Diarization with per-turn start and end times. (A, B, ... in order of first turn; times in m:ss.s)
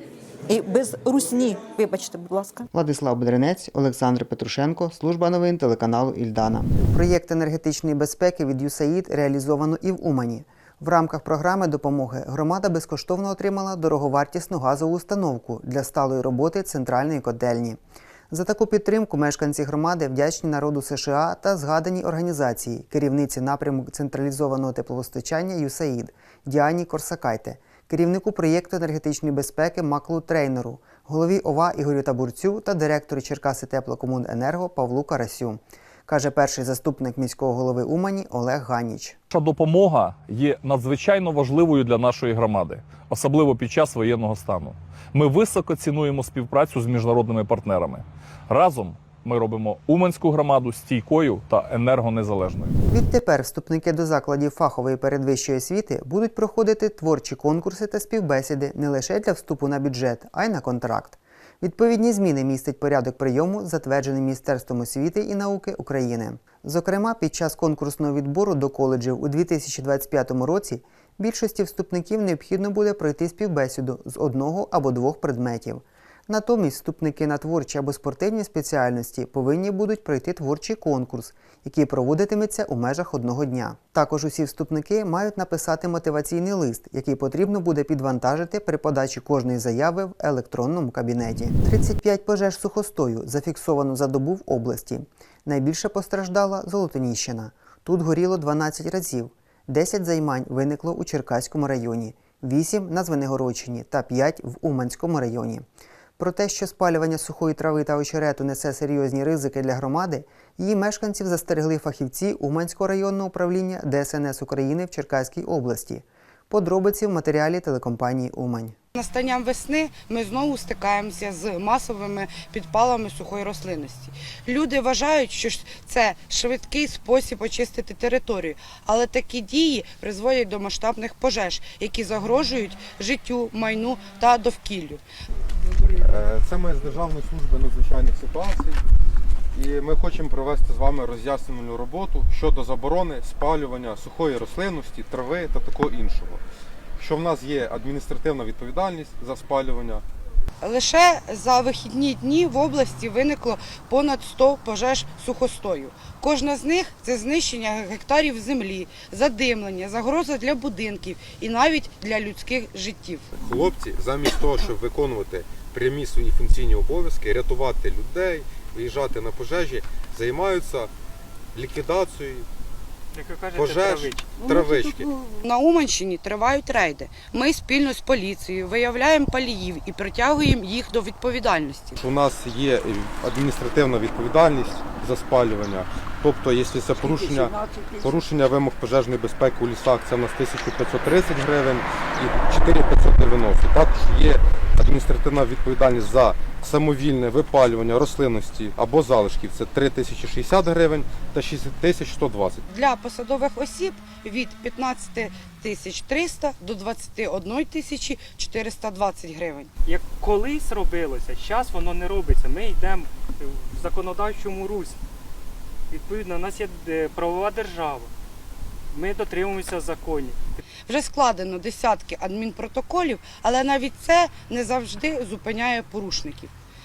0:00.5-0:02.7 A
0:02.7-0:17.8 B
0:18.3-0:39.2 B
0:39.3-0:52.7 C
0:52.9-1:45.6 B
1:46.2-1:58.8 B
1:58.9-2:15.0 D
2:16.0-2:18.8 E
2:19.5-2:26.4 E
2:27.0-2:30.0 E
2:30.6-2:43.4 D
2:43.4-2:50.9 E
2:51.5-2:52.5 E
2:53.1-2:54.4 F
2:53.5-2:55.1 E
2:54.4-3:02.0 D
3:02.0-3:22.6 E
3:22.7-3:29.7 D
3:29.8-3:35.0 F
3:35.9-3:38.1 F
3:38.9-3:40.4 F
3:40.9-3:46.5 D